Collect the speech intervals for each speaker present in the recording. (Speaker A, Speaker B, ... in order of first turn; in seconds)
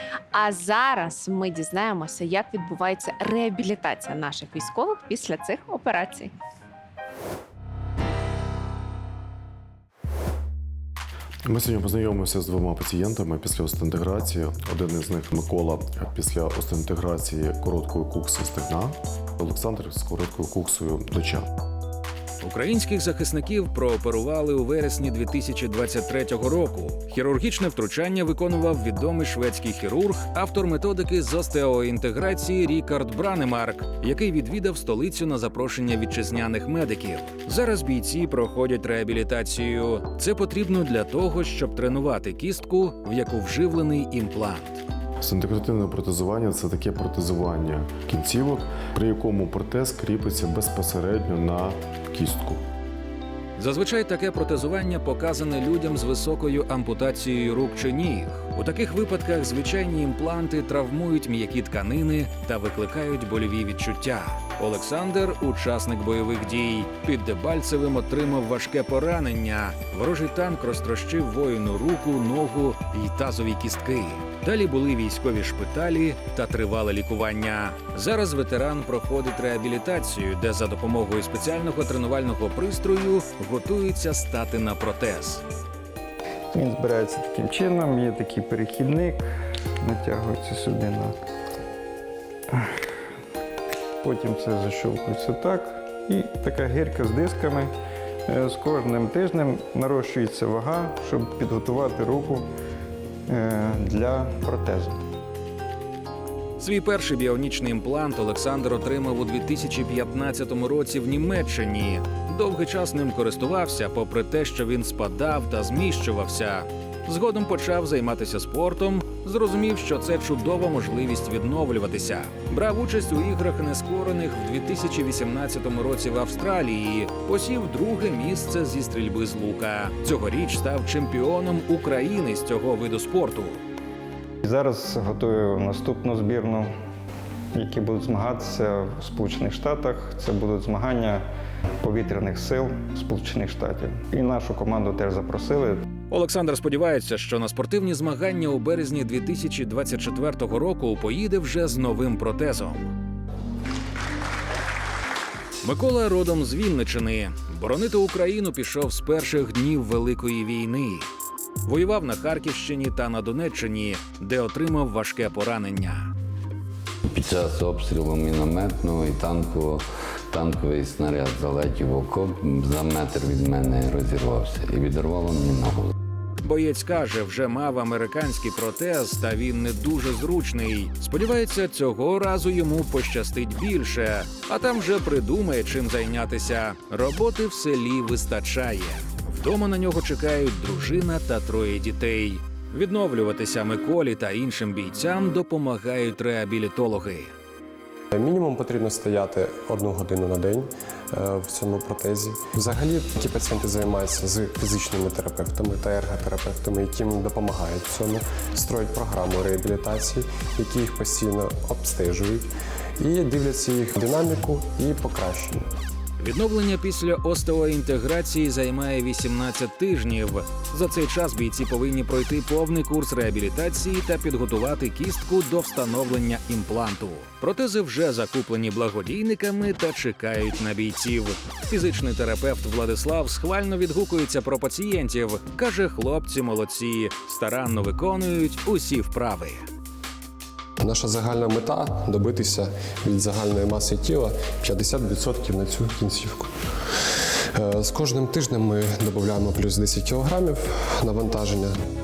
Speaker A: 0.3-6.3
Speaker B: 11.4-21.5, 45.2-52.6
Speaker C: 22.4-44.8, 53.6-85.4, 106.6-133.6, 146.1-152.9, 155.6-161.1, 161.6-166.1, 176.4-197.3, 216.2-239.7
Speaker D: 86.5-89.2, 89.8-91.1, 94.0-97.7, 98.3-102.5, 103.3-105.0, 134.4-136.7, 137.5-141.2, 141.8-145.8
Speaker E: 167.1-175.9
Speaker F: 198.1-212.5, 213.0-215.7, 240.8-246.5, 247.5-251.8